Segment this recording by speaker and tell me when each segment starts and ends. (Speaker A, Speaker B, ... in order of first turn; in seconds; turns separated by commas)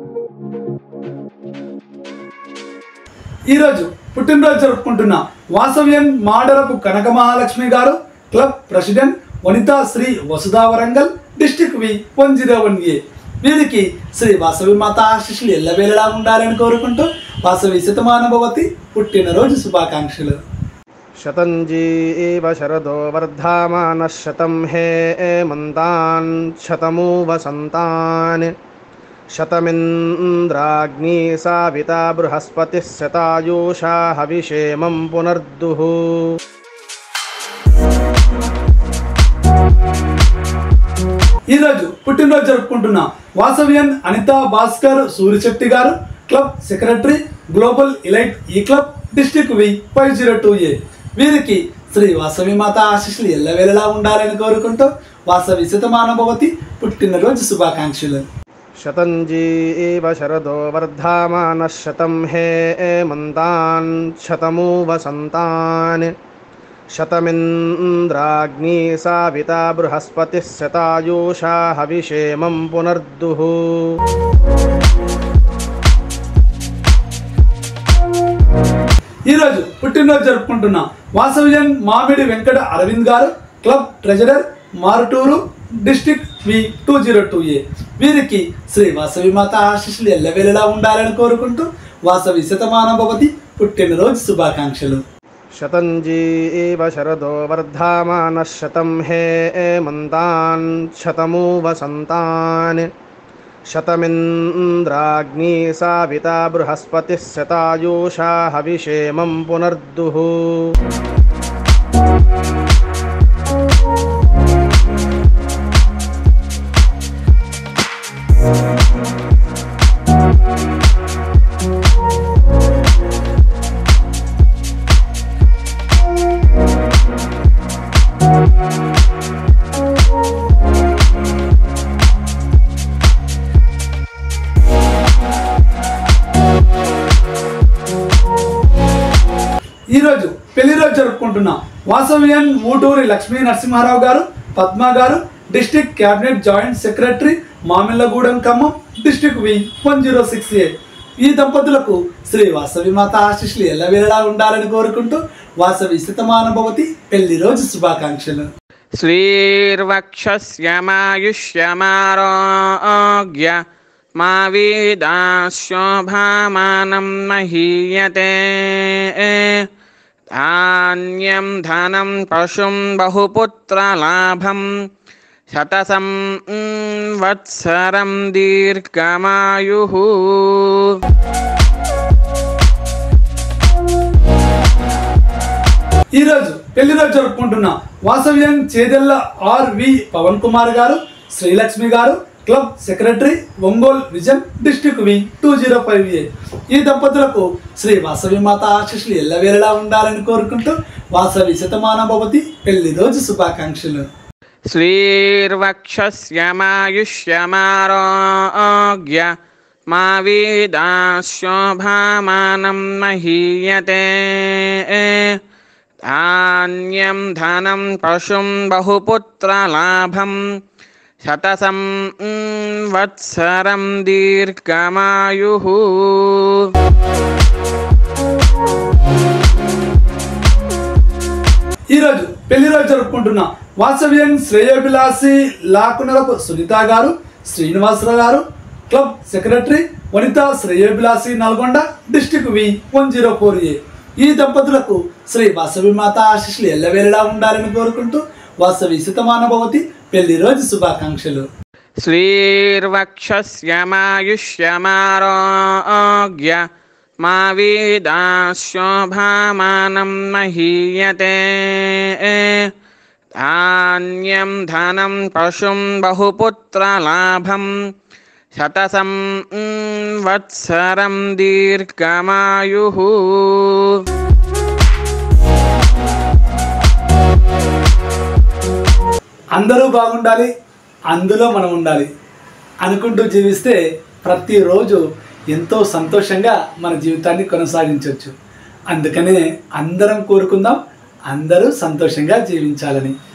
Speaker A: 3.5-20.4, Speaker B: 21.2-28.5, Speaker B: 29.3-36.3, Speaker A: 41.5-58.3, Speaker B: 58.8-66.1, Speaker B: 66.9-73.9, Speaker A: 79.3-95.0, Speaker B: 95.6-102.9, Speaker B: 103.7-110.7, Speaker A: 139.9-150.7, Speaker A: 151.2-158.5, Speaker C: 159.0-163.6, Speaker C: 164.2-169.7, Speaker C: 170.3-174.7, Speaker C: 175.5-181.0, Speaker A: 186.1-204.1, Speaker C: 204.7-209.3, Speaker C: 209.9-215.4, Speaker C: 216.1-220.4, Speaker C: 221.2-226.7, Speaker A: 231.9-251.5, Speaker C: 252.0-256.6, Speaker C: 257.2-262.7, Speaker C: 263.4-267.7, Speaker C: 268.5-274.0, Speaker A: 279.6-280.5, Speaker A: 281.1-282.1, Speaker A: 282.8-288.3, Speaker A: 288.9-293.1